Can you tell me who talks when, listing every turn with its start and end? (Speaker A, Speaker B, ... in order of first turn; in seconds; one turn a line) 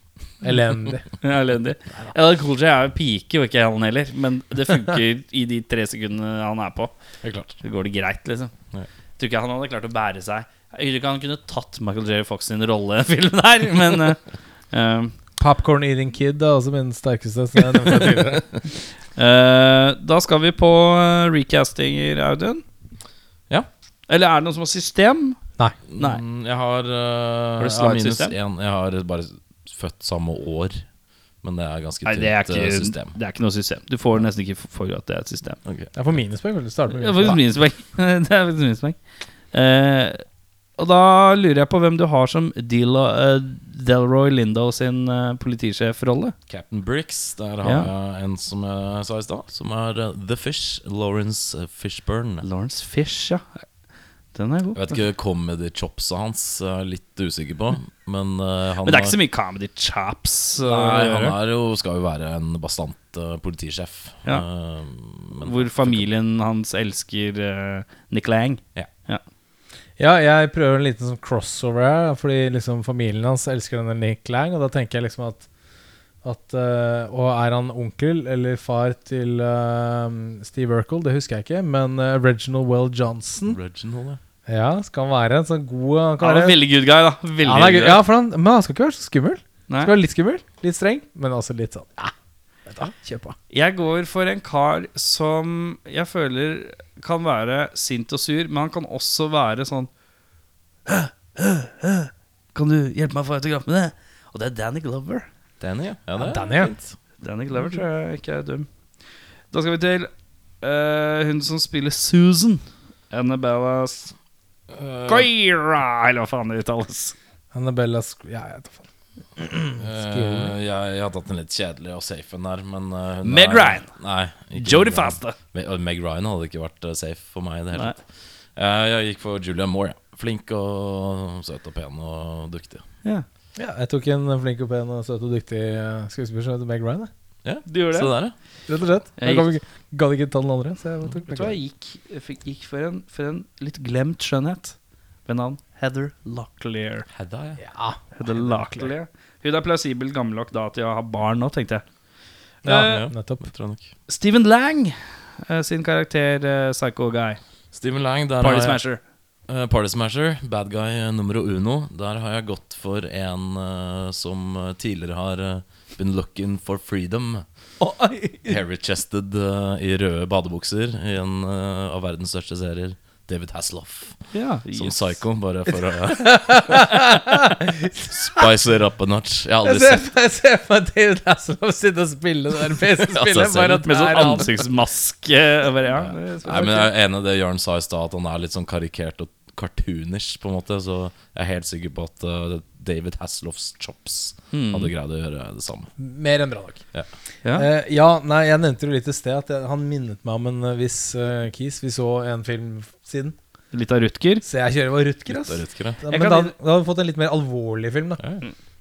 Speaker A: 0.4-1.1
Speaker B: 1.2-6.9
Speaker C: 7.2-7.5
Speaker B: 7.6-8.5
Speaker B: 9.2-15.2
Speaker A: 15.4-18.5
Speaker B: 19.1-22.6
Speaker B: 24.1-25.4
Speaker C: 25.9-30.9
Speaker B: 26.0-26.2
Speaker B: 27.6-28.3
Speaker C: 31.4-33.2
Speaker B: 32.0-35.6
Speaker C: 35.6-35.9
Speaker A: 36.0-37.4
Speaker B: 36.9-39.0
Speaker B: 39.5-40.2
Speaker B: 40.8-46.3
Speaker C: 46.5-52.5
Speaker B: 47.6-47.9
Speaker B: 52.4-53.7
Speaker B: 54.3-54.8
Speaker C: 54.8-59.1
Speaker B: 58.8-61.4
Speaker C: 60.6-66.1
Speaker B: 65.4-69.2
Speaker A: 70.0-75.5
Speaker A: 76.2-83.6
Speaker C: 83.5-84.2
Speaker A: 84.5-86.6
Speaker B: 86.2-88.0
Speaker A: 87.5-92.1
Speaker A: 92.7-93.4
Speaker B: 93.5-99.9
Speaker B: 100.9-105.3
Speaker C: 105.6-107.0
Speaker A: 106.2-106.7
Speaker B: 107.2-108.7
Speaker B: 109.5-114.1
Speaker C: 114.7-115.3
Speaker B: 115.1-117.2
Speaker A: 117.5-120.5
Speaker C: 119.8-132.9
Speaker B: 123.2-123.9
Speaker B: 124.5-125.4
Speaker A: 133.6-137.1
Speaker C: 137.4-138.3
Speaker B: 137.7-138.1
Speaker A: 138.7-141.6
Speaker B: 139.2-139.5
Speaker B: 141.3-147.1
Speaker C: 147.1-147.6
Speaker A: 147.6-148.9
Speaker B: 148.2-151.9
Speaker B: 152.6-153.0
Speaker A: 152.7-153.5
Speaker C: 152.7-153.9
Speaker B: 154.1-157.4
Speaker C: 157.7-158.8
Speaker B: 158.4-159.0
Speaker C: 159.5-167.7
Speaker B: 167.8-168.6
Speaker C: 168.5-176.9
Speaker B: 174.3-175.2
Speaker A: 176.0-178.5
Speaker C: 178.1-180.0
Speaker A: 179.6-184.5
Speaker C: 183.1-183.9
Speaker B: 183.8-186.9
Speaker C: 186.4-195.9
Speaker B: 194.5-194.9
Speaker A: 196.0-196.9
Speaker A: 197.5-203.4
Speaker B: 203.7-204.4
Speaker A: 204.4-208.2
Speaker C: 205.3-206.0
Speaker B: 206.1-206.5
Speaker C: 208.2-208.4